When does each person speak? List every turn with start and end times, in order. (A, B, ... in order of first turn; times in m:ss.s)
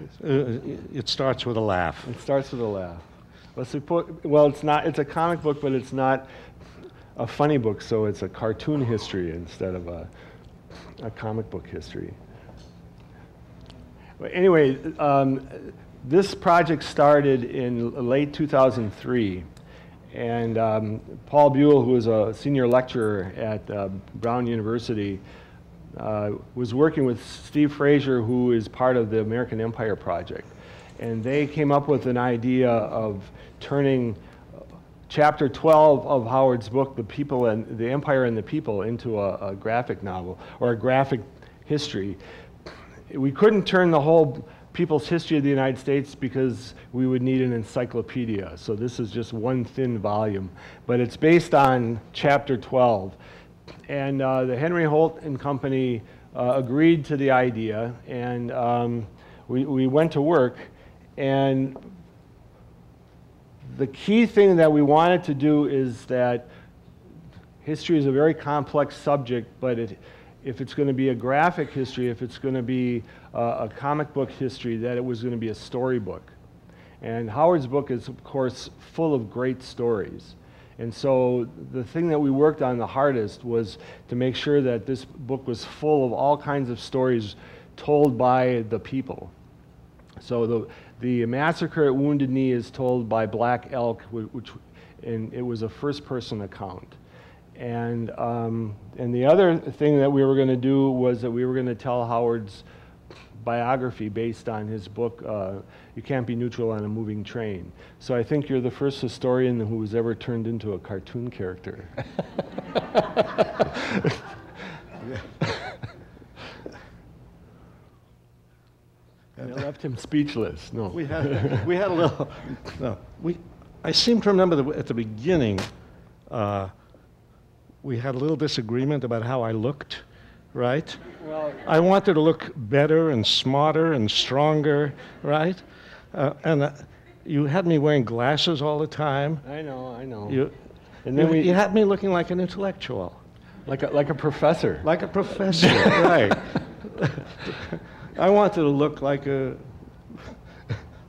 0:00.2-0:02.1 A
0:02.0-0:03.0 B
0:03.6-0:06.3 B
0:07.2-0:10.1 B
0:11.0-0:12.2 B
0:14.2-0:19.5 B
0:20.1-0:25.2 B
0:25.9-0:34.2 B
0:35.1-0:42.2 B
0:43.1-0:53.2 B
0:53.9-1:01.8 B
1:03.6-1:06.5 B
1:07.6-1:16.3 B
1:17.0-1:29.3 B
1:30.2-1:37.0 B
1:37.6-1:42.6 B
1:43.4-1:51.9 B
1:59.4-2:01.6 B
2:00.9-2:05.7 A
2:06.3-2:06.7 A
2:07.8-2:11.0 A
2:11.2-2:11.6 B
2:11.6-2:19.4 A
2:19.4-2:20.4 B
2:20.2-2:20.6 A
2:21.0-2:21.6 B
2:21.1-2:23.2 A
2:23.6-2:24.9 B
2:24.8-2:30.7 A
2:25.4-2:26.0 B